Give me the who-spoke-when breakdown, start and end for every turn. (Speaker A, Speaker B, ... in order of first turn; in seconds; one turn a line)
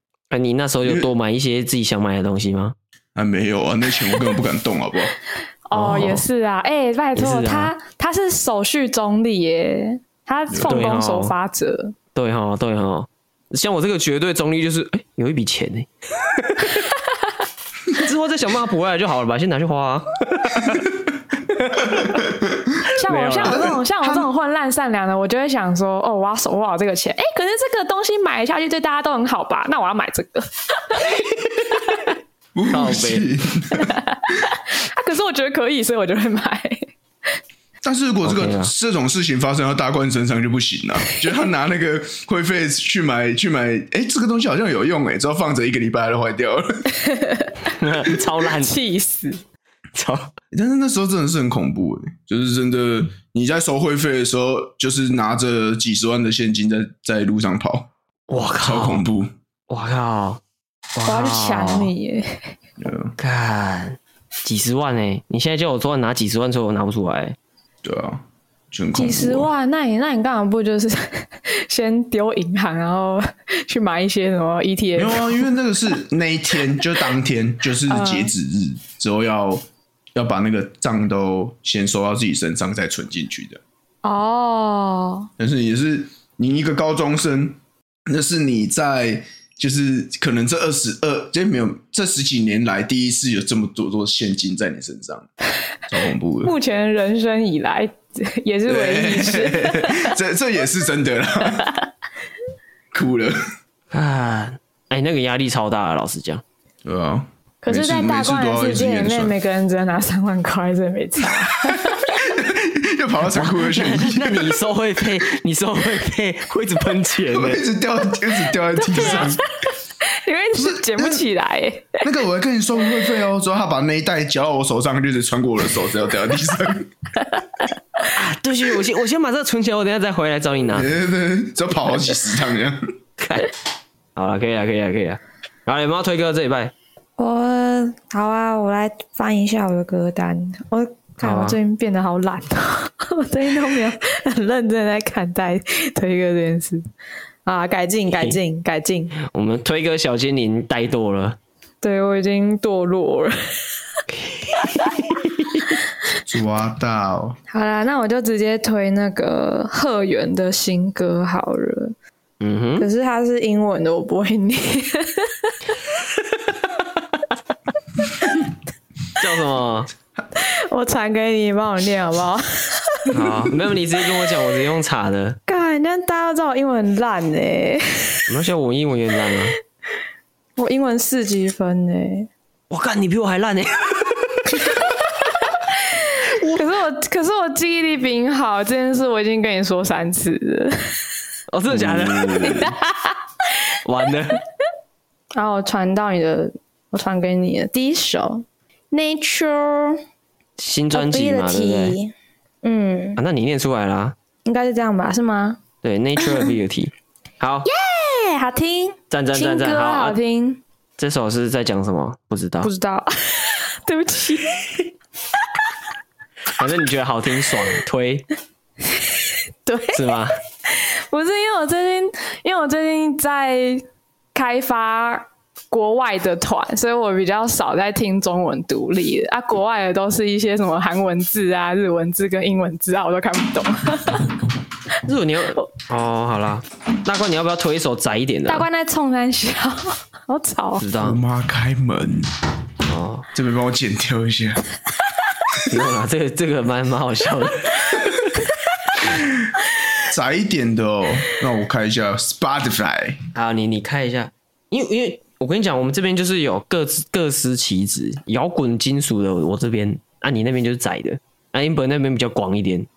Speaker A: 0.3-2.8
Speaker B: 0.8-1.1
Speaker B: 3.1-5.2
Speaker C: 5.7-11.9
Speaker A: 5.7-6.2
Speaker A: 7.2-7.7
Speaker B: 10.5-10.8
Speaker A: 10.6-11.3
Speaker A: 12.2-16.9
Speaker A: 17.9-22.3
Speaker B: 22.1-22.7
Speaker C: 22.9-31.2
Speaker A: 23.1-23.7
Speaker B: 23.4-24.3
Speaker B: 32.5-34.0
Speaker A: 32.7-33.3
Speaker C: 33.8-36.9
Speaker B: 37.8-46.9
Speaker A: 38.2-38.7
Speaker C: 47.0-49.4
Speaker A: 47.6-48.7
Speaker A: 50.0-50.3
Speaker B: 50.5-57.9
Speaker A: 58.3-59.1
Speaker B: 58.6-59.3
Speaker A: 59.7-60.4
Speaker A: 61.0-61.9
Speaker C: 61.1-62.4
Speaker B: 62.8-63.1
Speaker A: 63.2-67.4
Speaker B: 67.8-69.5
Speaker C: 69.0-75.5
Speaker B: 75.0-79.6
Speaker C: 77.9-78.3
Speaker B: 80.2-83.6
Speaker C: 84.0-85.3
Speaker B: 85.4-95.3
Speaker B: 95.9-96.6
Speaker C: 96.4-100.2
Speaker B: 98.7-101.8
Speaker B: 102.9-103.4
Speaker A: 103.9-106.4
Speaker B: 106.8-109.3
Speaker C: 107.6-112.2
Speaker B: 111.7-114.6
Speaker A: 113.3-117.6
Speaker B: 117.3-119.4
Speaker C: 118.5-122.1
Speaker B: 120.5-121.2
Speaker B: 122.0-126.9
Speaker A: 128.1-130.9
Speaker B: 130.7-132.8
Speaker A: 133.2-133.5
Speaker A: 134.2-136.7
Speaker C: 137.2-146.8
Speaker A: 141.2-141.6
Speaker C: 147.5-149.2
Speaker A: 148.1-148.4
Speaker A: 149.2-151.4
Speaker C: 151.8-153.6
Speaker A: 154.1-155.8
Speaker B: 156.2-157.4
Speaker C: 157.5-161.9
Speaker A: 162.4-162.9
Speaker C: 162.8-165.7
Speaker A: 169.2-169.9
Speaker C: 170.4-173.1
Speaker A: 173.1-175.4
Speaker C: 175.5-178.3
Speaker A: 178.3-179.6
Speaker C: 180.6-182.3
Speaker A: 182.7-184.7
Speaker C: 185.3-191.0
Speaker A: 186.2-186.7
Speaker A: 191.5-192.8
Speaker B: 191.7-192.6
Speaker C: 192.3-193.2
Speaker A: 193.8-194.4
Speaker C: 195.3-200.0
Speaker A: 200.6-202.0
Speaker C: 200.9-203.2
Speaker A: 203.2-204.2
Speaker C: 204.4-205.6
Speaker A: 205.8-207.7
Speaker C: 207.7-210.6
Speaker A: 209.1-210.2
Speaker A: 211.0-212.7
Speaker C: 212.6-214.9
Speaker A: 216.5-218.3
Speaker C: 219.7-234.3
Speaker A: 219.9-220.4
Speaker A: 235.0-238.7
Speaker C: 238.5-240.8
Speaker A: 240.8-241.2
Speaker B: 241.0-242.4
Speaker A: 242.8-243.3
Speaker B: 243.3-244.6
Speaker A: 245.7-247.9
Speaker B: 250.0-253.2
Speaker A: 253.3-262.9